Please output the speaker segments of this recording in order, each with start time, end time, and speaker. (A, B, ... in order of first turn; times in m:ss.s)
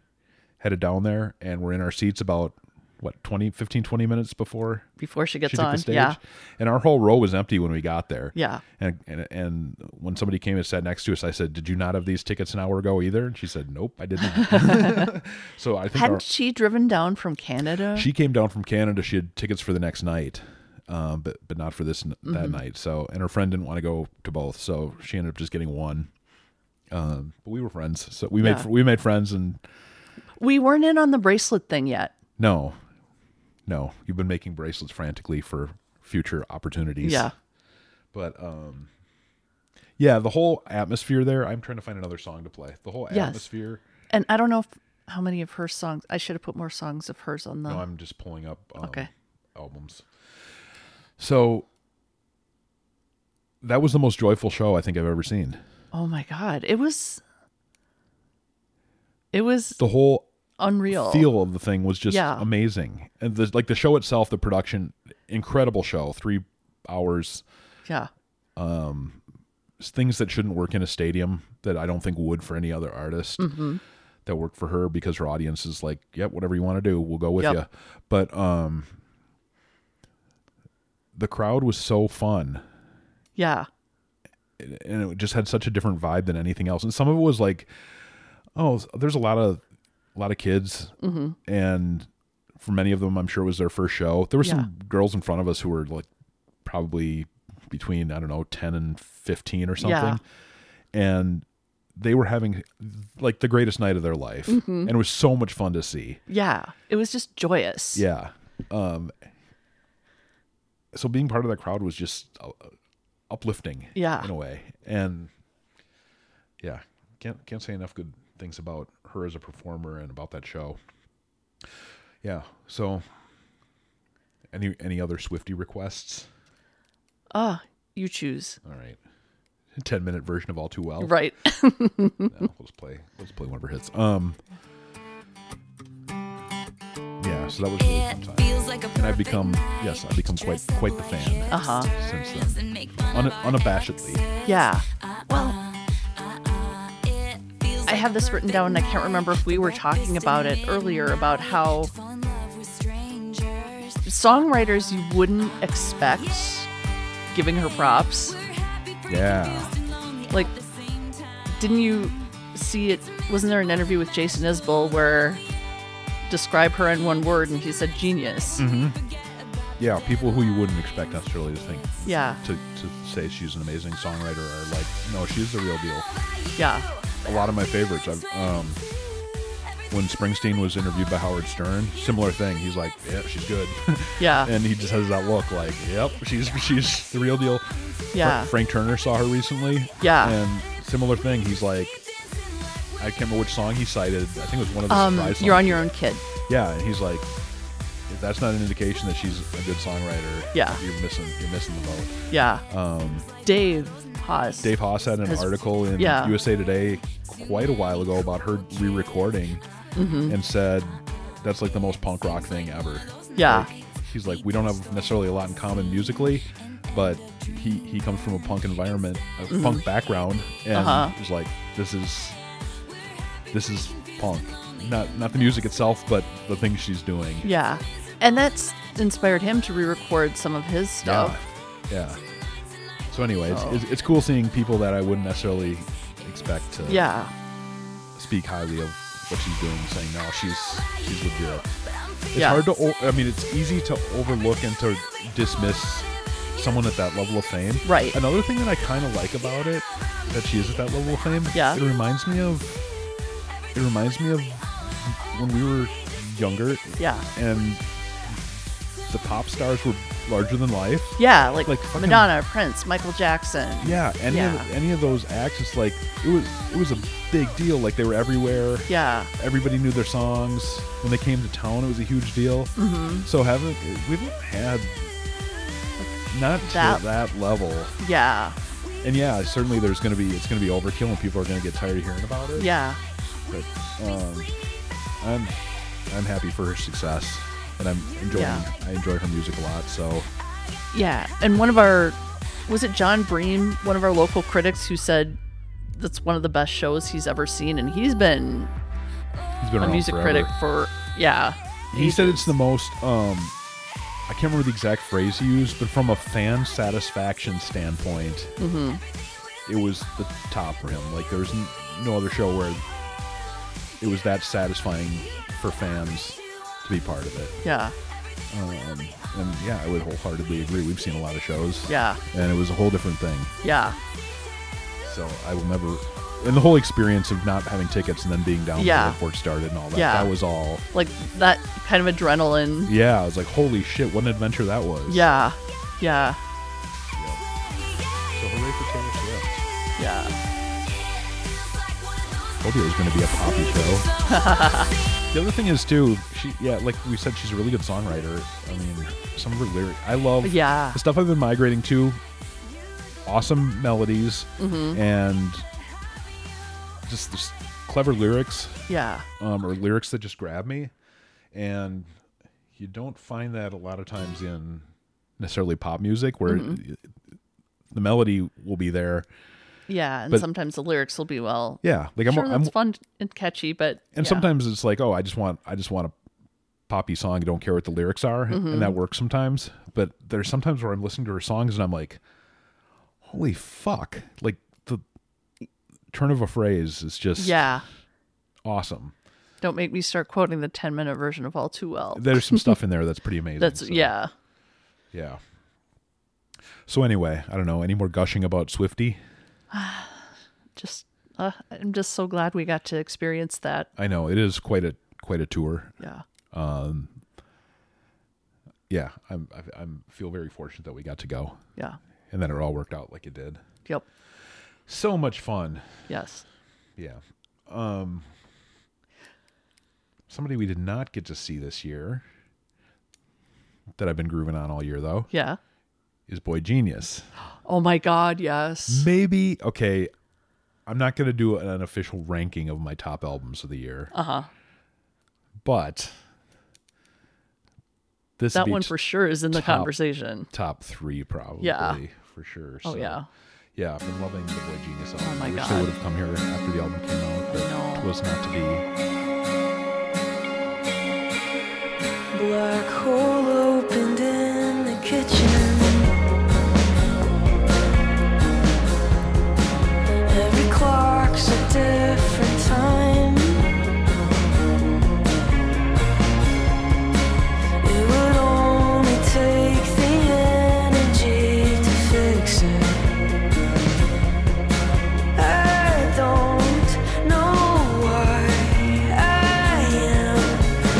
0:00.6-0:04.9 A
0:05.0-0:06.2 B
0:05.4-0:16.2 A
0:08.3-0:08.6 B
0:14.4-0:15.1 B
0:15.9-0:18.1 B
0:17.9-0:26.1 A
0:22.2-0:22.6 B
0:26.9-0:29.6 A
0:28.4-0:28.6 B
0:30.4-0:32.2 B
0:32.4-0:32.8 A
0:33.6-0:37.3 A
0:37.0-0:37.3 B
0:38.1-0:38.9 A
0:40.0-0:43.8 A
0:43.1-0:43.4 B
0:44.1-0:47.8 B
0:47.7-0:50.1 A
0:48.8-0:49.1 B
0:51.2-0:51.7 A
0:53.6-0:55.6 A
0:55.9-0:57.2 B
0:59.3-0:59.8 B
0:59.8-1:00.3 A
1:00.6-1:01.3 B
1:00.9-1:07.4 A
1:02.1-1:02.4 B
1:08.6-1:09.2 A
1:09.8-1:13.6 A
1:13.4-1:13.8 B
1:14.2-1:18.9 A
1:21.1-1:22.6 A
1:23.4-1:23.7 B
1:24.6-1:27.7 A
1:28.6-1:29.6 A
1:30.1-1:36.1 A
1:31.0-1:31.4 B
1:34.4-1:34.7 B
1:36.6-1:40.2 A
1:39.8-1:40.2 B
1:40.9-1:46.2 A
1:44.5-1:44.9 B
1:46.3-1:48.0 B
1:47.9-1:49.1 A
1:50.9-1:52.7 A
1:53.3-1:55.3 A
1:53.9-1:54.3 B
1:56.6-2:00.8 A
2:02.2-2:03.0 A
2:04.5-2:06.3 A
2:07.3-2:08.6 B
2:08.6-2:09.0 A
2:09.7-2:11.2 A
2:11.0-2:12.3 B
2:12.3-2:14.4 A
2:17.2-2:24.2 A
2:18.4-2:18.9 C
2:21.5-2:21.9 B
2:22.6-2:23.0 C
2:24.4-2:25.6 B
2:27.8-2:31.9 B
2:32.4-2:33.6 C
2:34.0-2:36.7 B
2:37.3-2:38.4 B
2:39.1-2:39.7 A
2:41.6-2:45.4 B
2:46.3-2:48.6 B
2:48.6-2:49.0 A
2:49.8-2:56.1 A
2:52.0-2:52.4 B
2:56.6-2:56.9 B
2:57.2-2:58.8 A
2:59.9-3:12.0 A
3:04.2-3:04.5 B
3:08.1-3:08.5 B
3:10.0-3:10.4 B
3:13.0-3:15.9 A
3:14.9-3:16.2 B
3:16.5-3:17.3 A
3:18.1-3:23.3 A
3:20.5-3:20.8 B
3:22.3-3:22.6 B
3:23.4-3:26.4 B
3:24.6-3:29.6 A
3:30.0-3:30.4 B
3:30.2-3:42.4 A
3:33.4-3:33.7 B
3:39.5-3:39.8 B
3:40.7-3:41.1 B
3:43.5-3:47.5 A
3:47.4-3:51.4 B
3:51.0-3:52.2 A
3:53.1-3:57.0 A
3:53.5-3:53.8 B
3:56.9-3:57.3 B
3:58.1-4:01.7 A
4:02.3-4:12.8 A
4:02.3-4:02.6 B
4:07.8-4:08.2 B
4:11.5-4:11.8 B
4:13.7-4:18.4 A
4:17.0-4:17.2 B
4:19.1-4:22.3 A
4:21.2-4:24.7 B
4:23.8-4:32.7 A
4:28.9-4:29.3 B
4:32.8-4:33.3 B
4:33.2-4:35.1 A
4:36.3-4:38.0 A
4:36.7-4:37.0 B
4:38.0-4:38.6 B
4:39.0-4:42.7 A
4:42.6-4:43.0 B
4:43.5-4:44.5 A
4:45.2-4:50.3 A
4:48.3-4:48.6 B
4:50.9-4:55.4 B
4:55.9-4:58.7 B
4:59.6-5:00.5 A
4:59.8-5:02.5 B
5:01.9-5:03.6 A
5:04.3-5:08.6 A
5:08.6-5:09.0 B
5:09.6-5:12.8 A
5:14.0-5:17.6 A
5:17.6-5:17.9 B
5:18.5-5:23.5 A
5:21.9-5:22.2 B
5:23.6-5:24.0 B
5:25.0-5:30.8 A
5:28.8-5:29.2 B
5:29.9-5:30.3 B
5:30.9-5:32.9 B
5:32.9-5:35.3 A
5:35.1-5:36.4 B
5:37.1-5:37.4 A
5:38.3-5:39.6 A
5:40.0-5:40.3 B
5:42.6-5:44.1 A
5:44.3-5:44.9 B
5:45.3-5:52.2 A
5:50.4-5:51.0 B
5:53.2-5:55.6 A
5:54.6-5:55.0 B
5:57.0-5:58.9 A
5:58.9-5:59.2 B
5:59.4-6:00.9 A
6:01.5-6:02.1 A
6:02.8-6:04.8 A
6:05.4-6:07.1 A
6:06.5-6:06.8 B
6:07.9-6:09.3 A
6:09.9-6:14.4 B
6:11.8-6:12.7 A
6:14.1-6:16.1 A
6:16.9-6:22.2 A
6:18.5-6:19.0 B
6:23.2-6:25.0 A
6:26.1-6:27.7 A
6:27.4-6:27.8 B
6:28.6-6:29.1 A
6:29.6-6:32.8 B
6:32.1-6:34.2 A
6:33.6-6:34.3 B
6:35.1-6:35.4 A
6:36.9-6:39.2 A
6:39.7-6:40.2 B
6:40.8-6:43.9 B
6:44.0-6:45.9 A
6:46.5-6:47.2 A
6:48.9-6:51.6 A
6:52.3-6:53.6 A
6:54.9-6:56.0 A
6:56.1-6:56.4 B
6:57.0-6:58.3 A
7:00.3-7:02.2 A
7:04.0-7:05.3 A
7:05.3-7:05.6 B
7:06.3-7:07.3 A
7:07.6-7:09.1 B
7:08.9-7:10.1 A
7:10.8-7:14.1 A
7:14.1-7:14.5 B
7:15.6-7:16.2 A
7:18.4-7:18.9 A
7:18.5-7:20.5 B
7:19.5-7:20.0 A
7:20.5-7:23.2 A
7:21.6-7:22.0 B
7:22.8-7:23.3 B
7:23.7-7:28.8 A
7:25.2-7:25.9 B
7:27.5-7:28.1 B
7:32.3-7:36.1 C
7:40.3-7:43.7 C
7:47.8-7:53.1 C
7:55.3-8:00.7 C